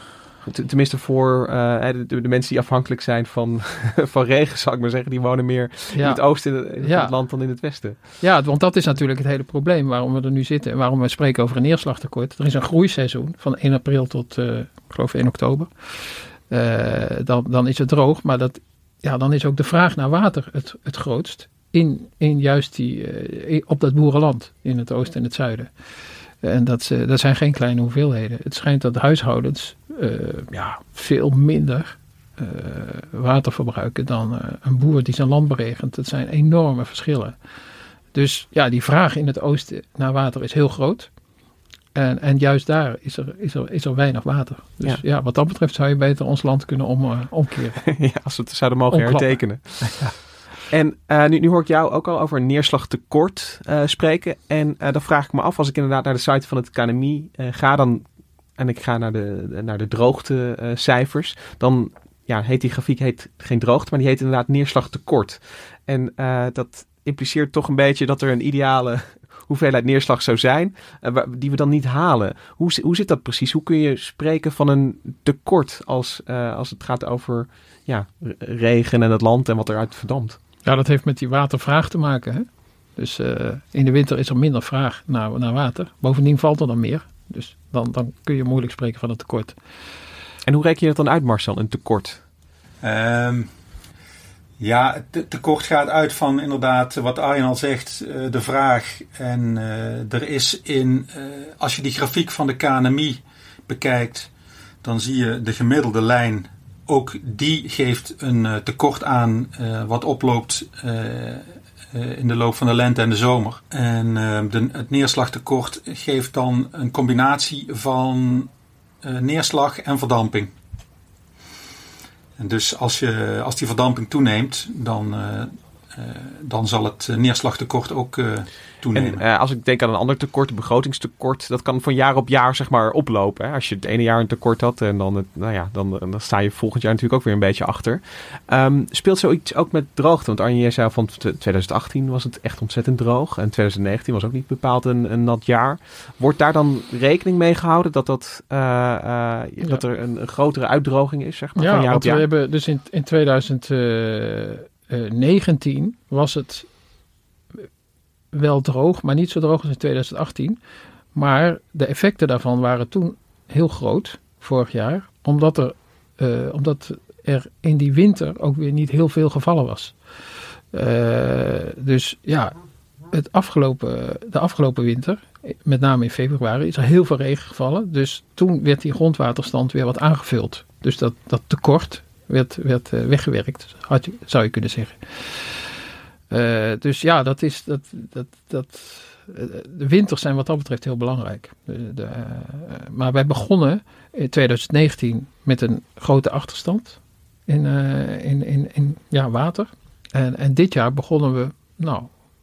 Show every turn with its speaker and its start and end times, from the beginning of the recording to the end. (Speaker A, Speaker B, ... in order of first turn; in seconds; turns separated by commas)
Speaker A: 0.4-8.0, Speaker B: 5.9-6.2, Speaker B: 6.8-7.1, Speaker B: 8.2-25.7, Speaker B: 26.4-37.4, Speaker B: 38.1-41.1, Speaker B: 41.9-47.8, Speaker A: 47.8-50.0, Speaker B: 48.9-50.1, Speaker A: 50.7-58.0, Speaker A: 58.6-80.4, Speaker B: 80.6-82.4, Speaker B: 83.0-89.5, Speaker A: 90.5-92.2, Speaker C: 92.8-93.5, Speaker C: 94.6-104.3, Speaker C: 104.8-118.5, Speaker C: 119.0-120.5, Speaker C: 122.4-129.2, Speaker A: 128.9-152.2, Speaker B: 151.6-156.7, Speaker B: 158.3-160.6, Speaker B: 161.1-169.9, Speaker B: 170.7-172.5, Speaker B: 173.1-185.7, Speaker B: 186.3-202.1